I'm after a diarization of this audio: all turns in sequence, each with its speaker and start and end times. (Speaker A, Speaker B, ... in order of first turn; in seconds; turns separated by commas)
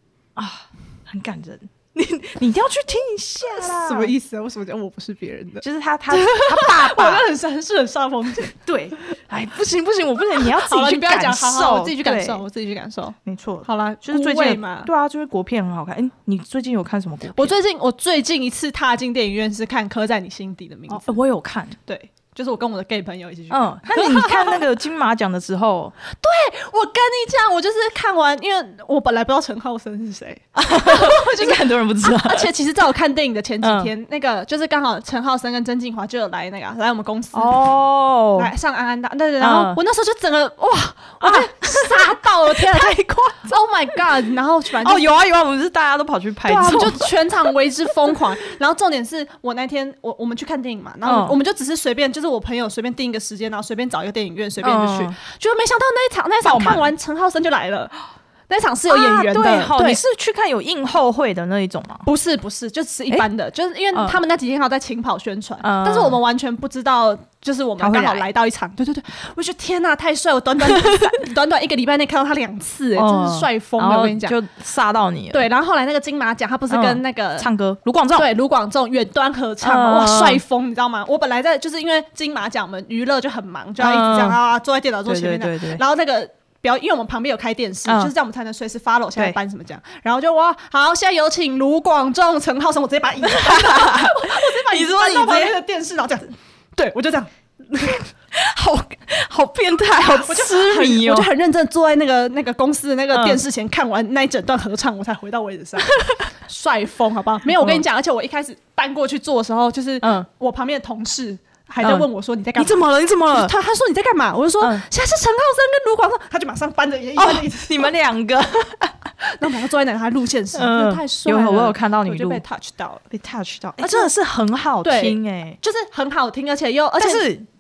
Speaker A: 0.4-4.1, Speaker B: 3.6-8.6, Speaker A: 5.6-7.3, Speaker A: 8.5-12.4, Speaker B: 10.4-14.9, Speaker A: 13.3-17.6, Speaker B: 17.4-21.2, Speaker A: 20.9-21.8, Speaker B: 21.9-24.6, Speaker A: 23.5-25.9, Speaker B: 26.1-37.6, Speaker A: 30.6-32.5, Speaker A: 33.6-33.9, Speaker A: 37.3-38.5, Speaker B: 38.4-45.1, Speaker A: 39.4-39.8, Speaker A: 41.2-43.5, Speaker A: 44.7-47.5, Speaker B: 46.5-57.9, Speaker A: 51.0-51.4, Speaker A: 54.6-55.2, Speaker A: 56.4-56.9, Speaker B: 58.5-60.0, Speaker A: 58.9-62.1, Speaker B: 62.0-74.4, Speaker A: 63.9-64.2, Speaker A: 65.6-66.2, Speaker A: 67.8-68.3, Speaker A: 70.7-71.1, Speaker A: 73.0-75.5, Speaker B: 75.3-77.5, Speaker A: 76.7-78.3, Speaker B: 78.2-98.0, Speaker A: 79.6-80.4, Speaker A: 83.8-84.4, Speaker A: 85.1-85.8, Speaker A: 87.9-88.1, Speaker A: 93.2-95.6, Speaker A: 97.8-101.3, Speaker B: 100.1-117.9, Speaker A: 103.1-103.4, Speaker A: 105.8-106.3, Speaker A: 107.6-107.8, Speaker A: 110.0-110.3, Speaker A: 111.8-113.5, Speaker A: 117.2-119.1, Speaker B: 119.2-123.1, Speaker A: 120.5-122.4, Speaker A: 123.1-125.6, Speaker B: 123.8-124.1, Speaker B: 124.8-127.3, Speaker A: 127.0-127.5